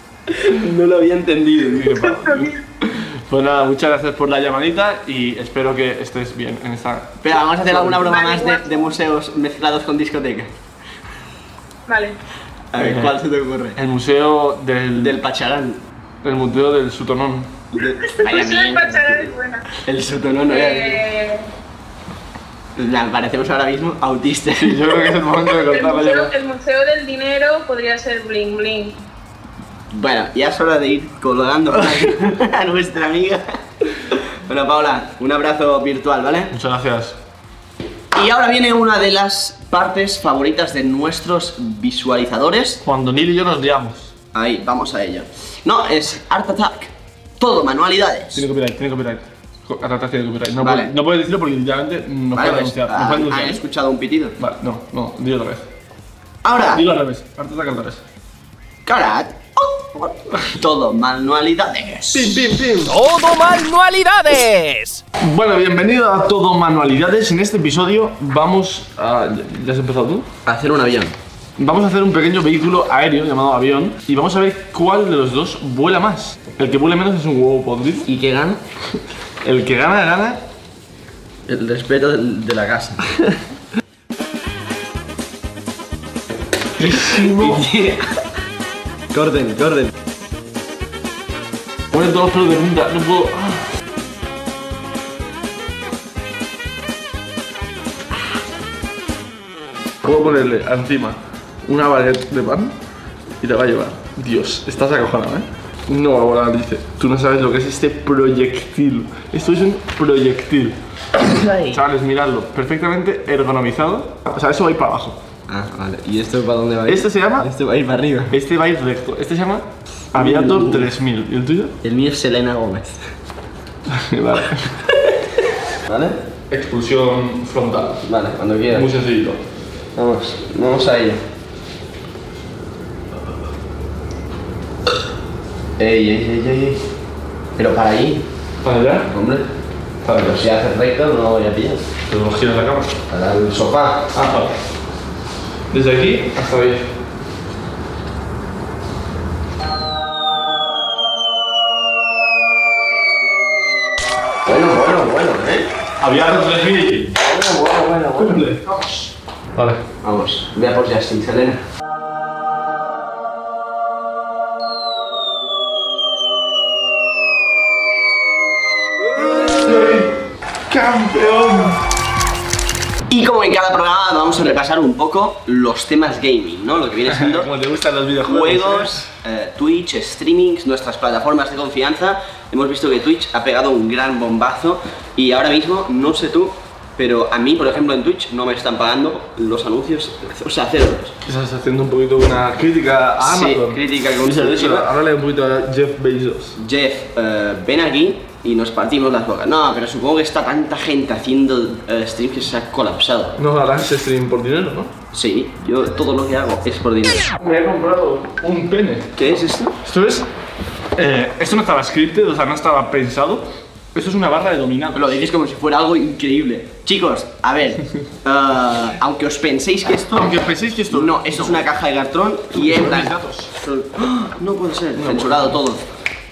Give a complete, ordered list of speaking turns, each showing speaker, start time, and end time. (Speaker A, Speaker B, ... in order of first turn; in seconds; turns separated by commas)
Speaker A: 0.3-2.1, Speaker B: 1.7-8.1, Speaker C: 2.2-2.6, Speaker A: 7.2-10.5, Speaker C: 8.0-8.9, Speaker C: 11.9-12.2, Speaker A: 12.7-13.8, Speaker B: 12.8-13.2, Speaker B: 13.8-15.2, Speaker A: 15.0-15.8, Speaker B: 16.2-17.5, Speaker A: 17.7-21.0, Speaker C: 18.2-19.7, Speaker C: 20.5-21.5, Speaker A: 22.8-25.2, Speaker B: 24.6-26.3, Speaker C: 25.7-29.0, Speaker A: 29.9-36.5, Speaker B: 36.5-37.2, Speaker A: 38.1-42.8, Speaker B: 42.8-44.1, Speaker A: 44.3-48.5, Speaker B: 48.4-53.6, Speaker A: 50.6-50.9, Speaker A: 52.3-54.4, Speaker B: 54.4-55.6, Speaker A: 56.4-56.9, Speaker B: 56.7-58.0, Speaker A: 58.9-62.6, Speaker B: 62.1-63.0, Speaker D: 62.9-65.0, Speaker B: 65.2-70.3, Speaker A: 70.5-71.2, Speaker B: 71.6-78.1, Speaker A: 78.0-78.6, Speaker B: 79.4-80.4, Speaker A: 81.5-83.1, Speaker B: 86.8-87.7, Speaker A: 87.2-88.2, Speaker A: 89.1-89.9, Speaker B: 91.9-93.7, Speaker B: 100.0-102.7, Speaker B: 103.4-110.8, Speaker A: 111.2-111.8, Speaker B: 111.7-115.2, Speaker A: 115.5-118.3, Speaker B: 116.9-117.5, Speaker B: 118.3-121.8, Speaker A: 120.1-120.9, Speaker A: 121.8-123.0, Speaker B: 123.9-124.8, Speaker A: 124.9-125.2, Speaker A: 125.9-126.2, Speaker B: 126.5-128.1, Speaker A: 128.1-128.9, Speaker B: 128.7-129.4, Speaker A: 130.0-131.2, Speaker A: 135.8-136.8, Speaker A: 137.6-138.3, Speaker B: 138.6-139.1, Speaker A: 139.1-139.5, Speaker B: 140.0-140.5, Speaker A: 140.1-141.9, Speaker B: 142.1-142.9, Speaker A: 143.1-144.1, Speaker B: 144.1-144.5, Speaker B: 145.7-146.9, Speaker A: 154.5-155.7, Speaker B: 156.0-157.2, Speaker A: 157.2-158.5, Speaker B: 158.2-158.8, Speaker B: 159.6-159.8, Speaker A: 160.0-161.6, Speaker B: 169.6-170.1, Speaker B: 170.7-171.8, Speaker A: 173.1-177.5, Speaker B: 177.1-179.1, Speaker A: 178.2-191.2, Speaker B: 191.2-196.6, Speaker A: 193.2-194.9, Speaker A: 196.6-203.4, Speaker B: 203.4-204.9, Speaker A: 205.1-207.3, Speaker B: 207.4-210.3, Speaker A: 209.2-209.8, Speaker B: 211.0-215.2, Speaker A: 214.9-220.4, Speaker B: 220.1-221.7, Speaker A: 220.9-225.8, Speaker B: 222.5-223.5, Speaker B: 225.0-225.6